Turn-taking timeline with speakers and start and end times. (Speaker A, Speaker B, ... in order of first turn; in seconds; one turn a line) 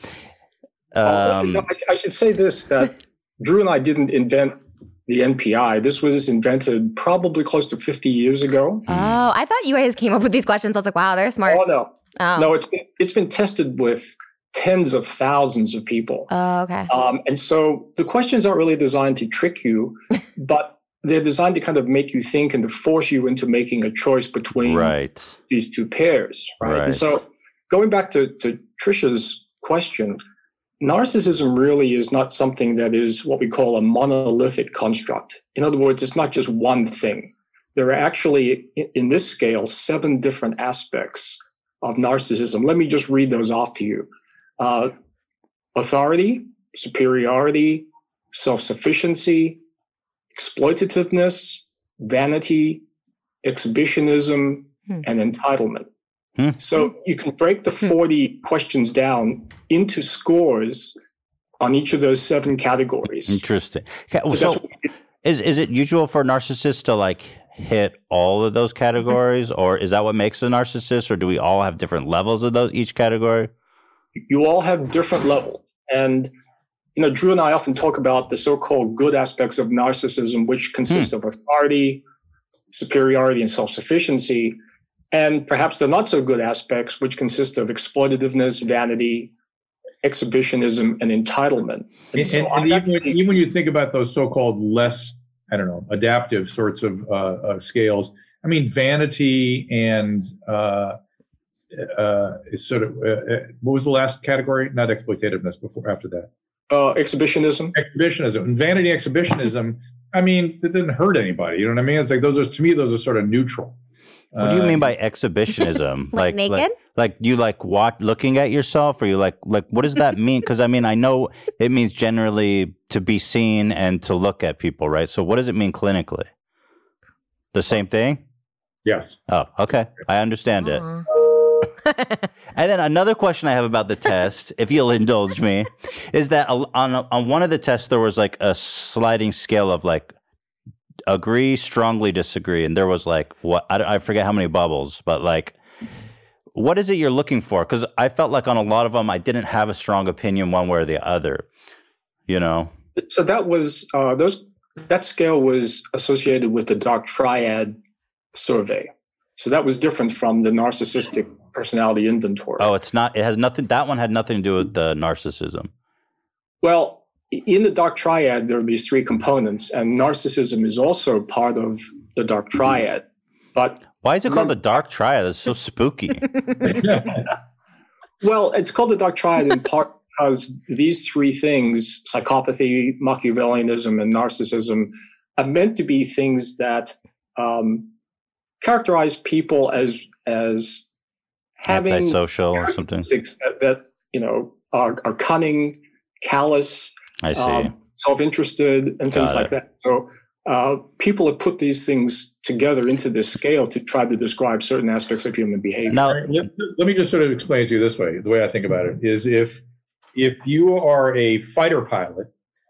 Speaker A: 0.9-1.6
Speaker B: 1.0-8.9
Speaker A: 8.9-9.2
Speaker C: 8.9-11.6
Speaker B: 11.4-16.3
Speaker C: 12.2-12.5
Speaker C: 16.3-16.9
Speaker B: 16.9-24.9
Speaker A: 24.6-25.4
Speaker B: 25.5-30.2
Speaker A: 26.6-27.1
Speaker B: 30.8-44.1
Speaker B: 44.6-44.9
Speaker B: 45.7-49.6
Speaker B: 50.3-52.8
Speaker B: 53.4-55.9
Speaker B: 56.6-61.0
Speaker B: 61.6-63.4
Speaker A: 63.2-64.6
Speaker B: 64.3-64.9
Speaker A: 65.2-73.5
Speaker B: 74.3-76.3
Speaker B: 77.0-82.0
Speaker B: 82.7-84.6
Speaker B: 85.1-89.3
Speaker B: 90.0-93.2
Speaker D: 92.1-101.0
Speaker D: 101.7-106.3
Speaker B: 106.7-107.7
Speaker D: 107.7-113.8
Speaker D: 114.3-114.9
Speaker A: 114.4-126.3
Speaker C: 116.1-116.7
Speaker A: 127.5-128.2
Speaker D: 128.8-129.2
Speaker A: 129.3-130.8
Speaker C: 130.8-131.0
Speaker A: 132.5-140.1
Speaker A: 141.1-145.6
Speaker A: 146.5-151.4
Speaker A: 152.3-152.7
Speaker B: 153.0-157.8
Speaker B: 158.3-162.7
Speaker A: 162.6-165.7
Speaker B: 166.6-174.5
Speaker A: 174.0-176.3
Speaker B: 176.7-177.2
Speaker B: 178.2-187.9
Speaker B: 188.6-190.9
Speaker B: 191.6-206.1
Speaker A: 191.7-193.1
Speaker A: 197.2-197.7
Speaker A: 199.1-199.5
Speaker A: 205.9-206.2
Speaker D: 206.0-209.6
Speaker D: 210.1-212.3